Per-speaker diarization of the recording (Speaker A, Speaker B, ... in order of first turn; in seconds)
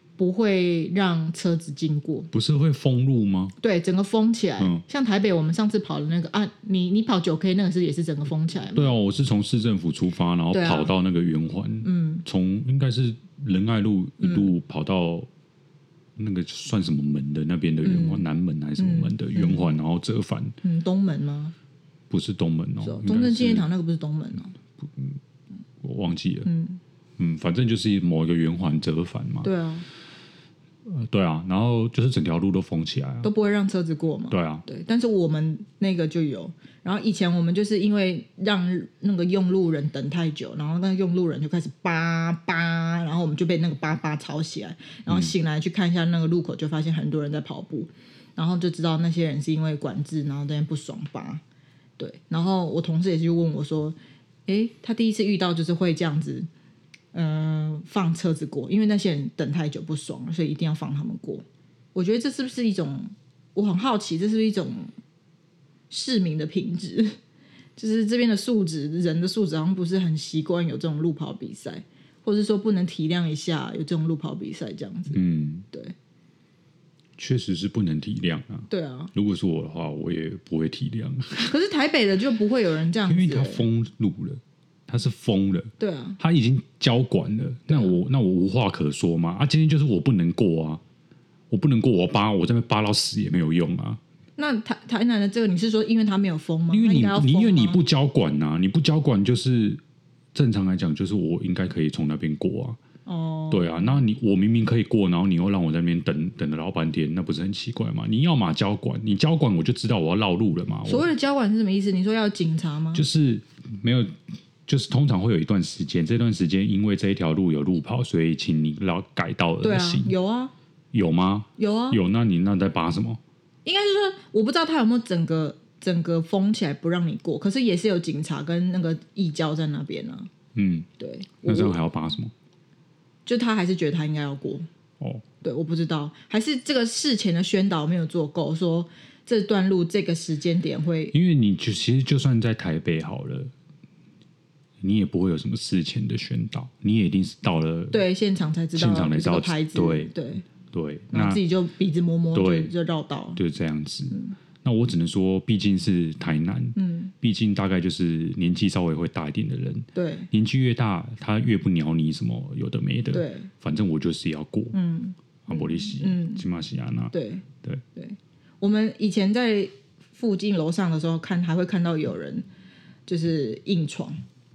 Speaker A: 0.2-2.3, 3.6-8.9, 10.5-10.9, 11.8-12.2, 14.2-14.5, 17.8-18.2, 18.8-19.8, 20.6-21.5, 22.8-24.5, 26.4-26.8, 29.4-29.9, 33.2-51.4, 52.0-54.0, 54.5-56.5, 57.1-61.4, 62.0-64.9, 65.9-67.2, 67.8-75.2, 78.7-79.1, 81.5-83.6, 85.8-86.2, 94.4-97.8, 103.1-104.0, 110.8-113.0, 119.6-120.5, 121.6-122.0, 123.7-130.3, 131.0-131.8, 133.3-134.7, 135.4-141.2, 147.9-150.4, 151.1-153.4, 156.8-157.1, 159.9-160.3, 163.1-163.5, 164.7-166.4, 167.1-167.4, 168.0-172.5, 173.1-174.2
Speaker B: 2.3-3.6, 4.6-4.8, 8.7-15.3, 16.2-20.6, 22.1-23.7, 24.8-25.2, 25.8-26.5, 27.2-29.5, 30.9-33.3, 34.3-34.6, 45.1-45.3, 75.1-75.7, 77.2-81.5, 83.1-90.8, 91.5-94.0, 96.7-99.8, 100.3-102.8, 103.5-111.1, 112.9-114.2, 114.7-120.1, 120.9-123.2, 130.6-130.9, 131.5-132.3, 141.1-143.5, 144.8-148.0, 148.8-150.1, 150.7-151.4, 152.3-152.7, 153.4-164.8, 165.5-167.8